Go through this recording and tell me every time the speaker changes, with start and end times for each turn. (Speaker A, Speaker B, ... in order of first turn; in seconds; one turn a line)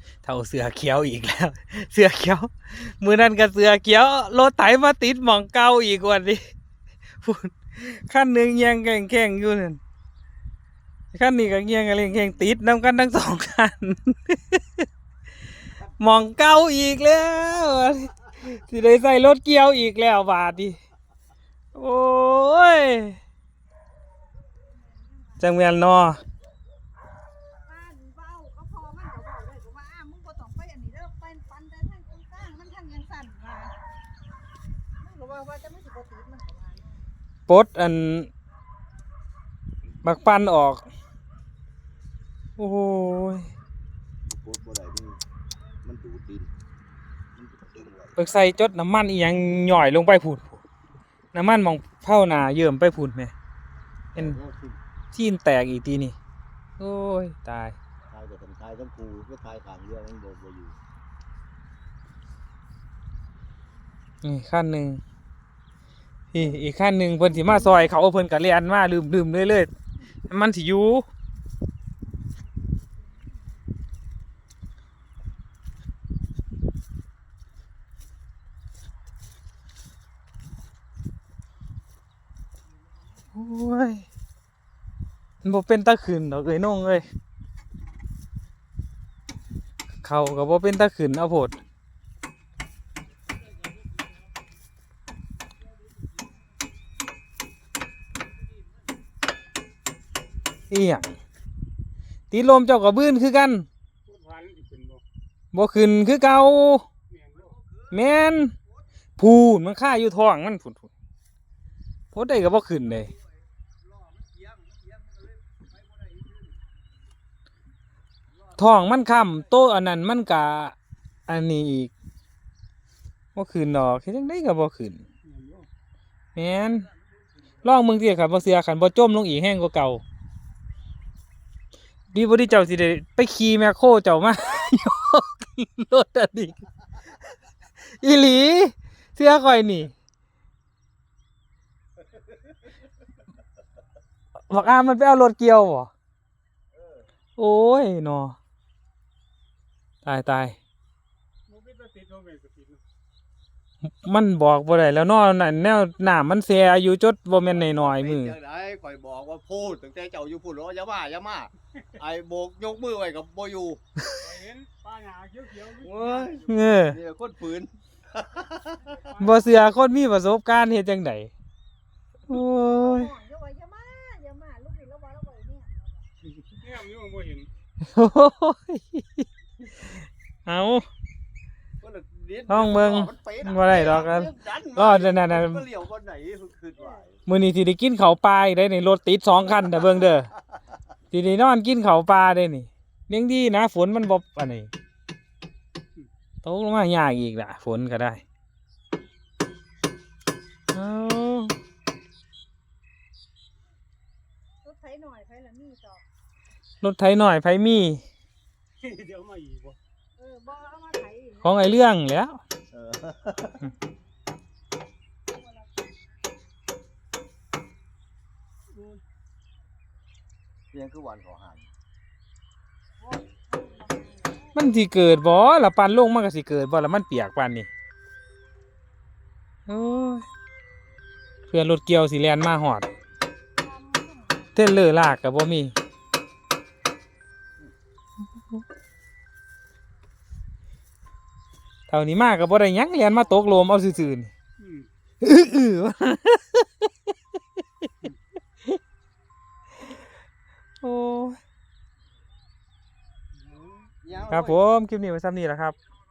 Speaker A: 0.2-6.4
Speaker A: 7.2-9.8
Speaker A: 11.1-14.8
Speaker A: 16.0-20.8
Speaker A: 21.7-23.2
Speaker B: 24.7-25.4
Speaker A: 25.4-26.2
Speaker B: 27.6-33.8
Speaker B: 35.0-37.0
Speaker A: 37.5-38.3
Speaker A: 40.0-40.9
Speaker A: 42.6-43.5
Speaker C: 44.3-45.2
Speaker C: 45.8-46.5
Speaker C: 47.4-48.2
Speaker A: 48.2-50.6
Speaker A: 51.3-53.3
Speaker C: 54.1-54.8
Speaker A: 55.1-56.1
Speaker A: 56.8-57.8
Speaker C: 58.1-60.8
Speaker A: 64.2-65.0
Speaker A: 66.3-69.7
Speaker B: 67.4-67.9
Speaker A: 70.3-71.0
Speaker B: 72.8-73.4
Speaker A: 83.3-84.1
Speaker A: 85.4-87.0
Speaker A: 90.0-91.6
Speaker A: 100.7-101.2
Speaker A: 102.3-103.7
Speaker D: 104.0-105.0
Speaker A: 105.5-106.8
Speaker D: 107.1-107.5
Speaker C: 107.5-107.9
Speaker A: 107.9-108.5
Speaker A: 109.2-110.9
Speaker A: 112.1-113.1
Speaker C: 113.8-116.7
Speaker A: 118.6-120.8
Speaker A: 121.3-121.9
Speaker A: 123.3-125.0
Speaker D: 125.2-125.7
Speaker A: 126.4-126.9
Speaker C: 127.2-127.6
Speaker A: 127.6-130.0
Speaker A: 132.1-136.6
Speaker A: 137.8-139.9
Speaker A: 144.5-145.9
Speaker C: 146.8-147.1
Speaker A: 147.4-148.4
Speaker A: 150.0-150.6
Speaker D: 151.5-152.8
Speaker A: 153.8-158.4
Speaker C: 157.5-163.8
Speaker D: 164.2-166.6
Speaker C: 165.8-169.0
Speaker A: 166.5-167.0
Speaker D: 168.8-169.7
Speaker A: 169.2-171.3
Speaker A: 172.3-173.1
Speaker B: 172.3-176.1
Speaker D: 176.5-177.5
Speaker A: 177.8-179.3
Speaker A: 179.8-180.9
Speaker C: 181.8-187.2
Speaker A: 182.5-185.7
Speaker A: 187.3-190.3
Speaker A: 191.1-194.7
Speaker A: 196.4-198.2
Speaker A: 200.7-201.6
Speaker B: 204.6-206.0
Speaker A: 206.8-208.0
Speaker D: 208.8-209.8
Speaker B: 210.2-211.7
Speaker A: 211.4-212.4
Speaker C: 212.7-213.7
Speaker D: 218.7-219.0
Speaker C: 220.7-221.7
Speaker B: 223.0-224.7
Speaker A: 224.5-227.7
Speaker A: 229.7-230.3
Speaker A: 231.5-232.9
Speaker B: 233.6-234.5
Speaker A: 234.6-235.8
Speaker A: 241.9-244.3
Speaker D: 244.6-244.9
Speaker A: 245.2-246.9
Speaker A: 250.8-251.4
Speaker D: 253.5-253.9
Speaker C: 254.0-254.6
Speaker A: 254.3-255.8